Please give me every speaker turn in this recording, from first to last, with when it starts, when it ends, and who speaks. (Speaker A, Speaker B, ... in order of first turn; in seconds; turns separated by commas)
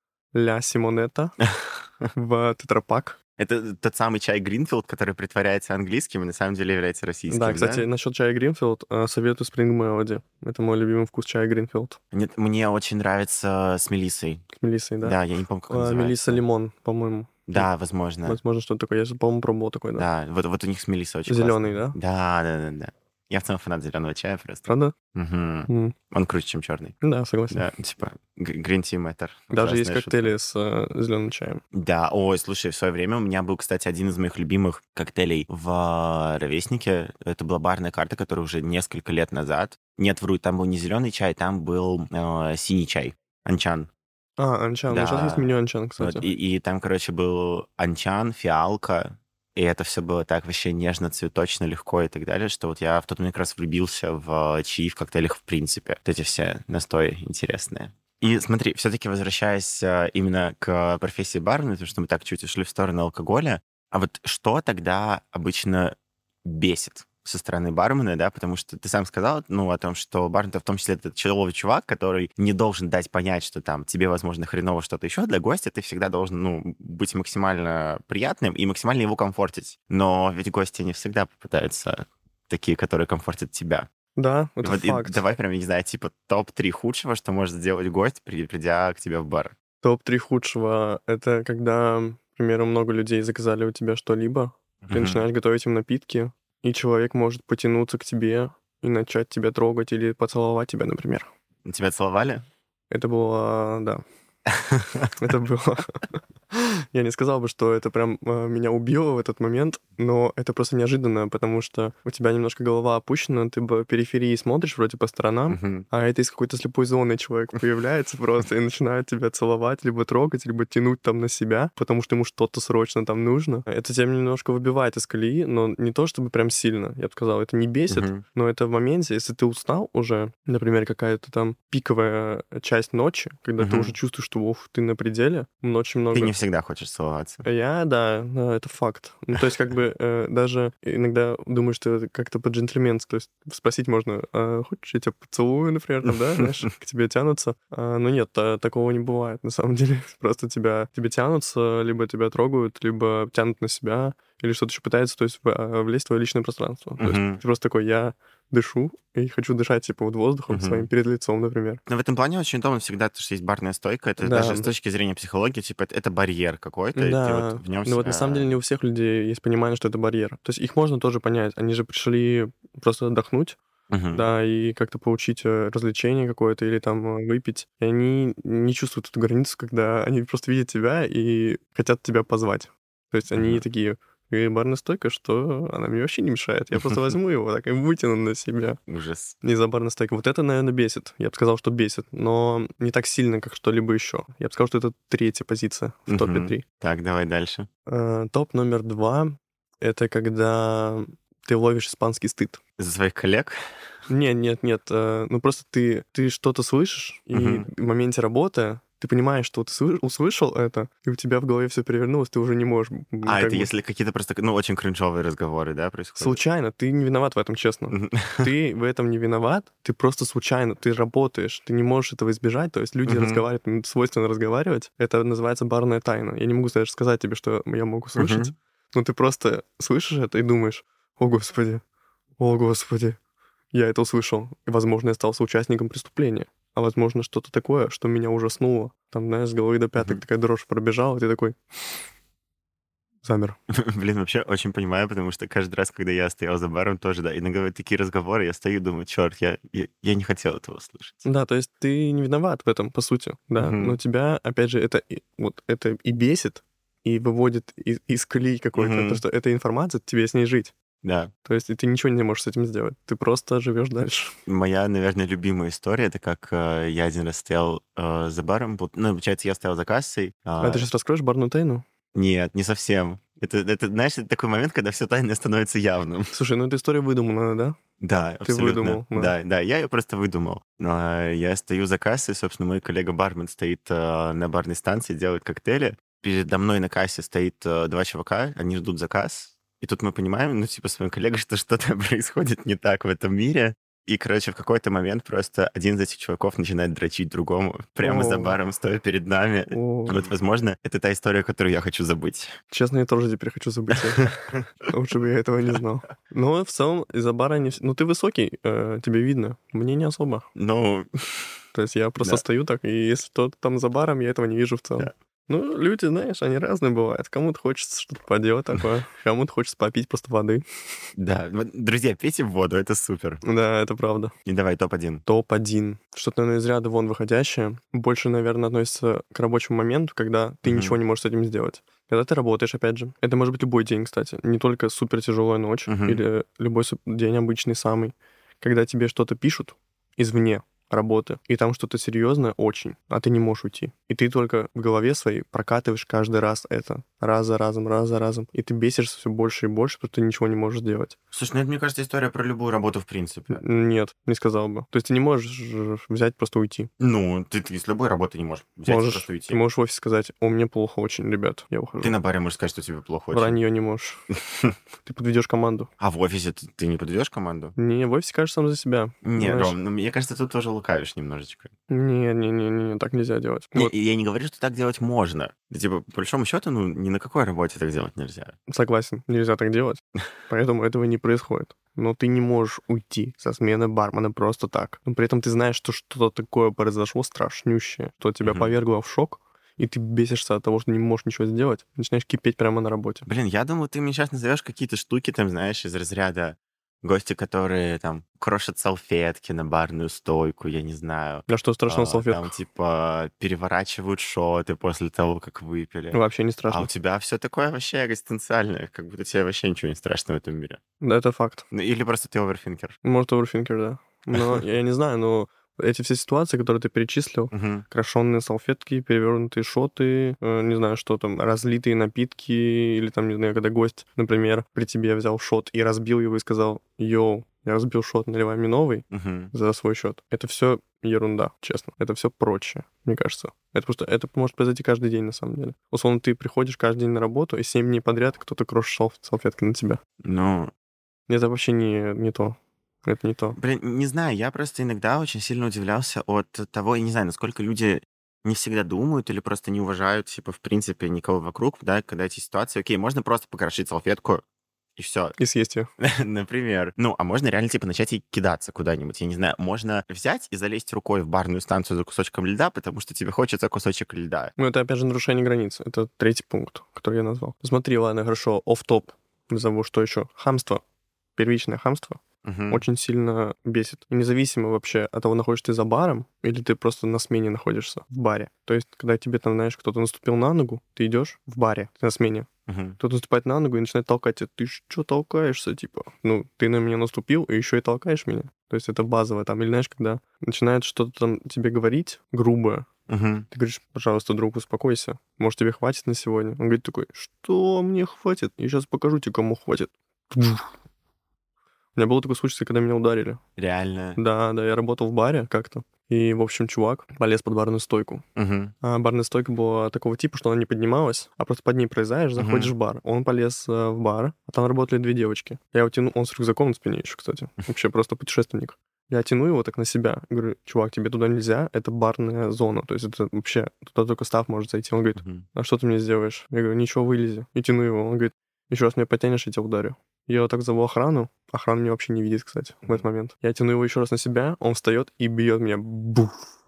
Speaker A: 0.3-1.4, Speaker B: 1.4-2.1, Speaker A: 2.1-3.2, Speaker B: 3.4-7.9, Speaker A: 7.3-12.0, Speaker B: 12.1-14.4, Speaker A: 14.6-15.2, Speaker B: 15.0-16.4, Speaker A: 15.7-17.7, Speaker B: 17.5-18.4, Speaker A: 18.3-20.1, Speaker B: 20.0-26.9, Speaker A: 21.3-22.0, Speaker A: 24.7-24.9, Speaker A: 25.7-25.9, Speaker A: 27.0-27.6, Speaker B: 27.5-30.4, Speaker A: 29.5-31.6, Speaker B: 31.7-43.9, Speaker A: 44.4-46.2, Speaker B: 44.9-83.9, Speaker A: 84.2-85.2, Speaker B: 84.6-89.5, Speaker A: 89.8-101.3, Speaker B: 94.8-95.2, Speaker B: 101.7-102.5, Speaker A: 102.9-104.0, Speaker B: 104.5-105.1, Speaker A: 105.2-136.3, Speaker B: 115.5-115.9, Speaker B: 127.9-128.2, Speaker B: 133.6-133.9, Speaker B: 136.1-137.4, Speaker A: 137.4-161.8, Speaker B: 146.1-146.6, Speaker B: 157.0-157.4, Speaker B: 160.5-160.9, Speaker B: 161.9-168.5, Speaker A: 164.2-164.7, Speaker A: 166.9-173.6, Speaker B: 173.9-174.3, Speaker A: 174.1-188.8, Speaker B: 183.3-183.6, Speaker B: 188.9-189.4, Speaker A: 189.4-196.6, Speaker B: 196.1-197.7, Speaker A: 197.9-202.6, Speaker B: 202.8-203.6, Speaker A: 204.1-213.7, Speaker B: 207.3-207.7, Speaker B: 213.2-216.4, Speaker A: 216.2-231.8, Speaker B: 217.9-218.5, Speaker B: 223.1-223.4, Speaker B: 228.2-228.5, Speaker A: 232.4-233.2, Speaker A: 233.7-241.6, Speaker B: 240.0-240.2, Speaker A: 243.2-243.6, Speaker B: 243.7-251.2, Speaker A: 251.2-260.7, Speaker B: 253.6-254.0, Speaker B: 258.8-259.2, Speaker B: 261.0-261.3, Speaker A: 261.5-264.4, Speaker B: 264.5-270.9, Speaker A: 270.6-271.9, Speaker B: 272.1-276.3, Speaker A: 276.3-277.8, Speaker B: 278.0-302.6, Speaker A: 278.4-279.3, Speaker A: 298.0-298.6, Speaker A: 299.7-300.2, Speaker A: 302.7-304.3, Speaker B: 304.1-304.9, Speaker A: 304.9-310.5, Speaker B: 310.6-311.6, Speaker A: 311.7-320.6, Speaker B: 321.2-323.4, Speaker A: 323.4-324.3, Speaker B: 324.5-325.2, Speaker A: 325.3-351.2, Speaker B: 330.6-331.0, Speaker B: 335.9-336.2, Speaker B: 351.3-353.6, Speaker A: 353.5-356.9, Speaker B: 357.0-359.6, Speaker A: 358.9-362.1, Speaker B: 362.0-363.6, Speaker A: 363.3-364.2, Speaker B: 364.3-364.7, Speaker A: 365.0-365.9, Speaker B: 366.0-367.8, Speaker A: 367.8-369.8, Speaker B: 369.2-371.7, Speaker A: 371.9-373.9, Speaker B: 373.8-378.6, Speaker A: 378.7-393.3, Speaker B: 388.4-388.7, Speaker B: 393.3-410.8, Speaker A: 401.5-402.5, Speaker A: 406.1-406.9, Speaker A: 411.0-411.7, Speaker B: 411.7-413.0, Speaker A: 413.0-440.0, Speaker B: 414.3-414.6, Speaker B: 417.5-417.9, Speaker B: 429.1-429.5, Speaker B: 440.2-440.7, Speaker A: 441.3-443.6, Speaker B: 443.5-454.4, Speaker B: 455.0-455.4, Speaker A: 455.4-455.9, Speaker B: 456.0-464.5, Speaker A: 464.6-470.8, Speaker A: 471.4-482.5, Speaker B: 472.4-472.9, Speaker B: 482.7-483.0, Speaker A: 483.0-492.9, Speaker B: 493.1-493.5, Speaker A: 493.5-500.7, Speaker A: 502.0-503.4, Speaker B: 503.6-504.2, Speaker A: 504.2-508.2, Speaker B: 508.4-508.7, Speaker A: 508.8-536.5, Speaker B: 512.4-512.7, Speaker B: 525.2-525.5